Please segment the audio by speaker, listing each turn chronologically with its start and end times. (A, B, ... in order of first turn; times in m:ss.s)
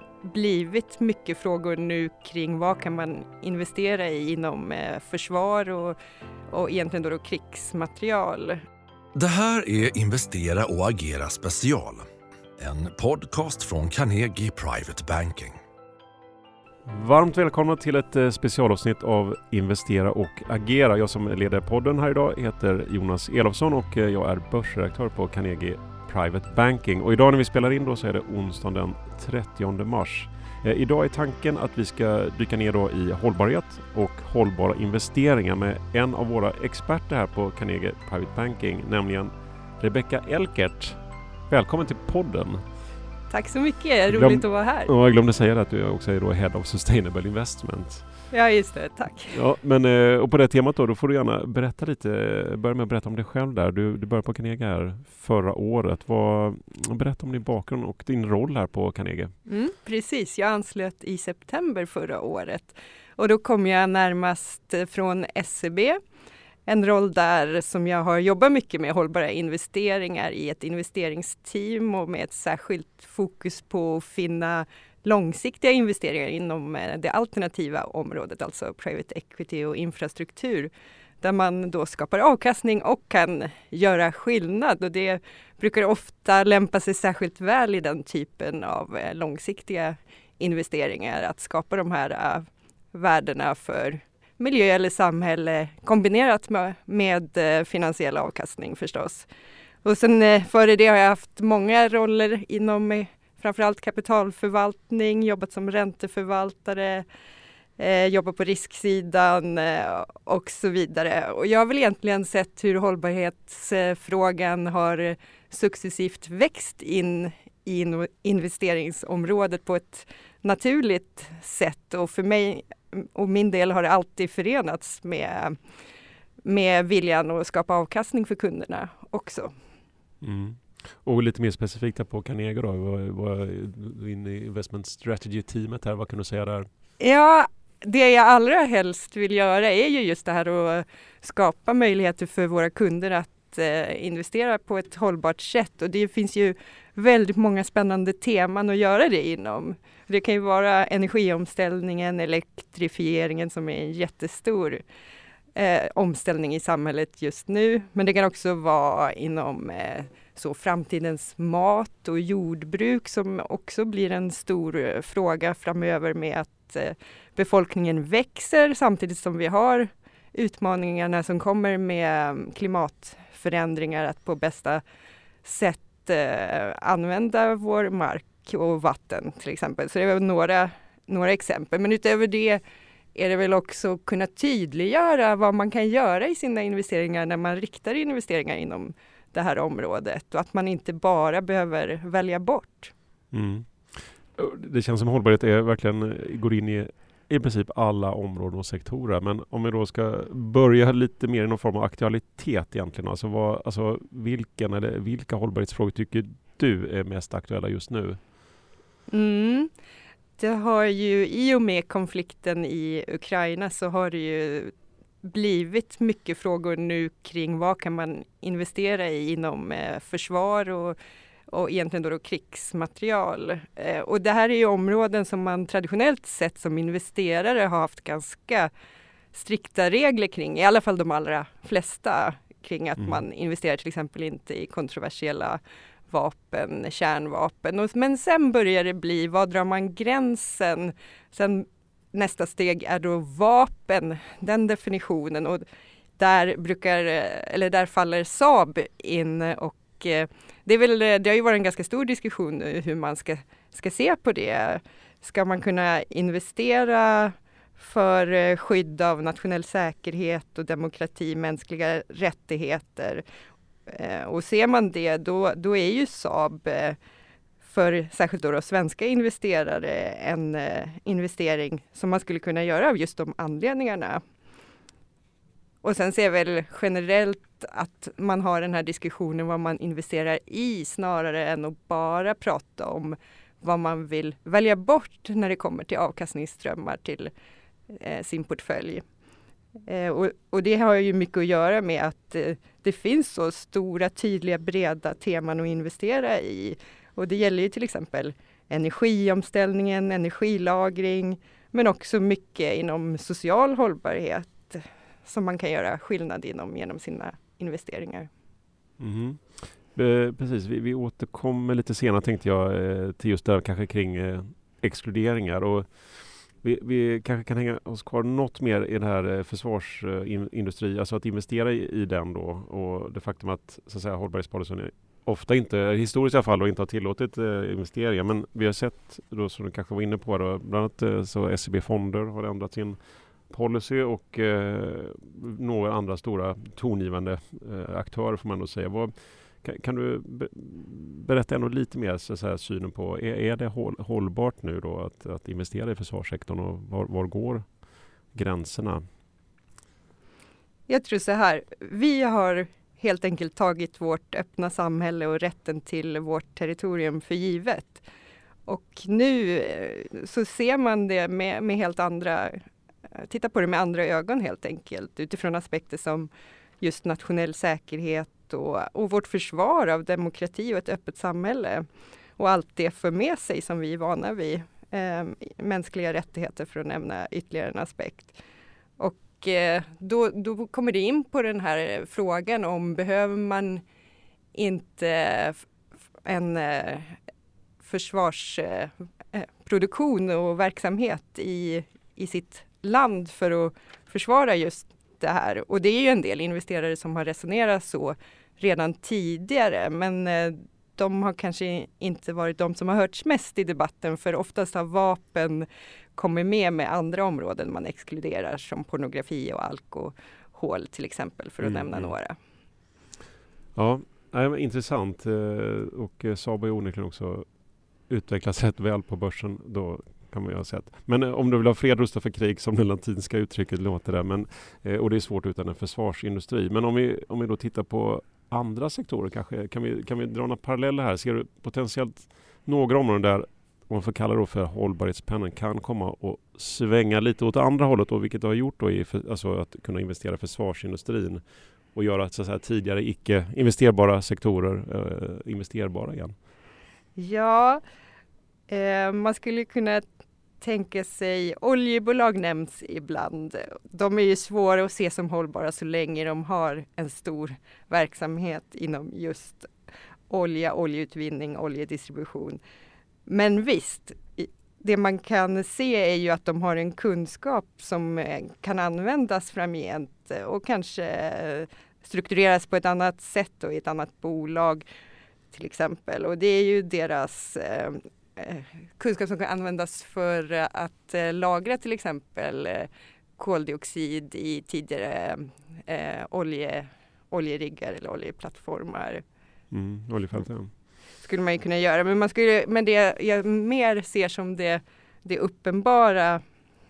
0:00.2-0:06.0 A
0:06.5-0:08.6 A
0:09.2-0:12.1 B
0:12.6-0:15.6 B
0:16.9-0:42.6 C
0:43.3-0:44.9 A
0:44.1-0:48.2 C
0:48.3-0:49.4 A
0:49.3-0:59.3 C
0:59.5-1:06.0 A
1:06.7-1:20.7 A
1:21.2-1:39.3 A
1:39.8-1:47.0 A
1:47.8-2:05.6 A
2:06.4-2:09.5 A
2:10.2-2:16.7 C
2:17.0-2:34.8 A
2:35.6-2:54.8 A
2:55.4-3:02.6 A
3:03.1-3:12.9 A
3:13.3-3:28.2 C
3:29.1-3:29.7 A
3:30.4-3:41.0 A
3:41.5-3:48.7 A
3:49.3-4:05.6 A
4:06.2-4:23.2 A
4:23.9-4:27.0 A
4:27.6-4:34.2 A
4:35.8-4:47.3 A
4:47.9-4:49.0 A
4:49.9-5:08.3 A
5:09.0-5:49.0 C
5:50.9-5:58.0 A
5:58.7-6:02.6 A
6:03.2-6:06.3 A
6:06.8-6:11.9 A
6:12.4-6:18.4 A
6:19.0-6:23.8 A
6:24.5-6:25.7 A
6:26.2-6:27.2 A
6:27.8-6:52.4 A
6:51.6-6:52.1 C
6:53.8-7:21.4 C
7:21.9-7:26.4 C
7:27.2-7:27.8 A
7:28.7-7:30.1 A
7:30.6-7:39.7 A
7:40.3-7:42.6 A
7:43.3-7:54.8 A
7:55.5-8:09.2 A
8:09.7-8:10.7 C
8:11.2-8:16.4 A